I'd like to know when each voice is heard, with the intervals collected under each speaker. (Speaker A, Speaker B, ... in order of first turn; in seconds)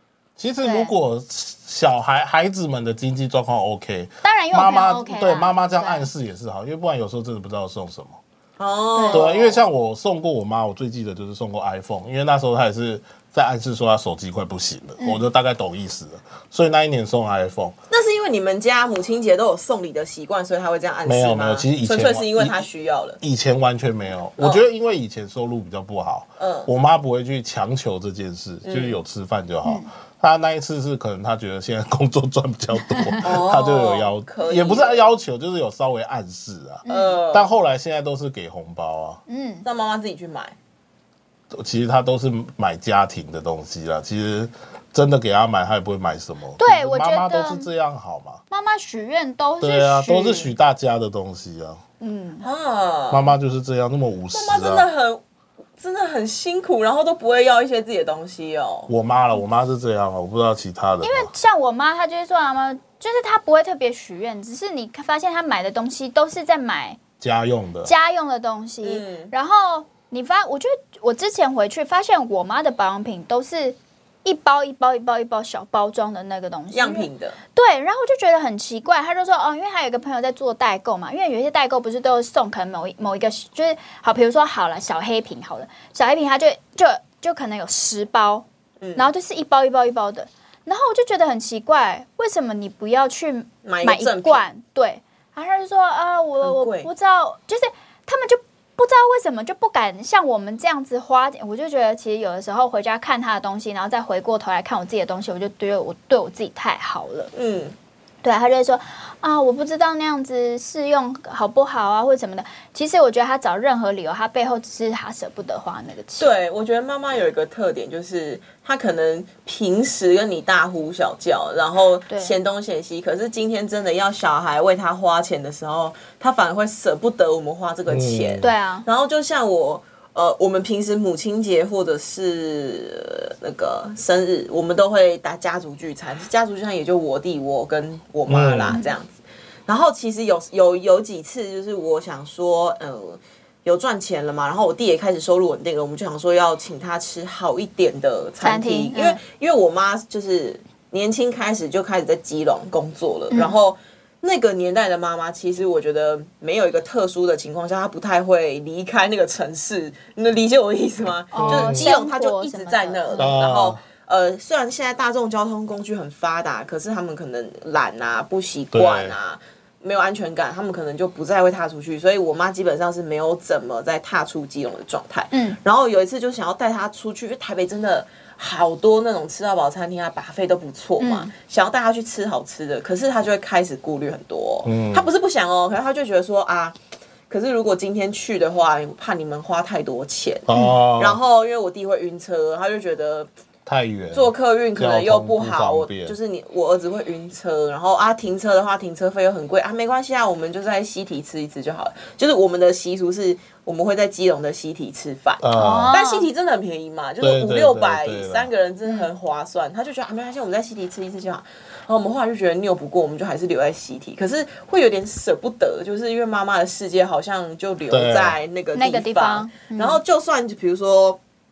Speaker A: 0.4-8.2, 9.1-17.8, 21.1-22.6, 23.2-39.2, 41.5-48.4, 49.6-51.8, 53.1-54.9, 58.9-61.3, 67.2-67.9, 127.9-128.5, 138.3-138.7, 161.4-161.9, 163.2-163.8, 168.7-169.2, 184.6-185.1, 190.5-191.2, 193.7-196.2, 205.4-205.9, 207.2-208.5, 217.9-218.4
Speaker B: 0.6-0.9, 4.2-6.1, 8.9-9.2, 15.0-15.2, 36.8-37.2, 39.3-39.6, 46.6-47.7, 48.5-50.5, 52.0-52.5, 61.0-67.0, 67.8-88.4, 89.0-107.3, 108.2-116.3, 122.1-122.3, 128.4-128.8, 148.4-149.2, 153.3-153.6, 161.3-163.3, 175.3-175.6, 181.0-181.3, 205.5-206.3, 218.7-220.0
Speaker C: 8.6-9.6, 17.9-23.2, 26.4-26.7, 28.6-29.0, 33.2-35.0, 36.9-37.5, 39.6-40.5, 52.4-53.3, 54.3-55.2, 55.8-58.9, 68.8-69.3, 76.7-77.4, 88.8-89.1, 93.6-94.4, 96.4-96.9, 107.3-107.7, 116.2-186.8, 187.3-193.3, 194.1-221.2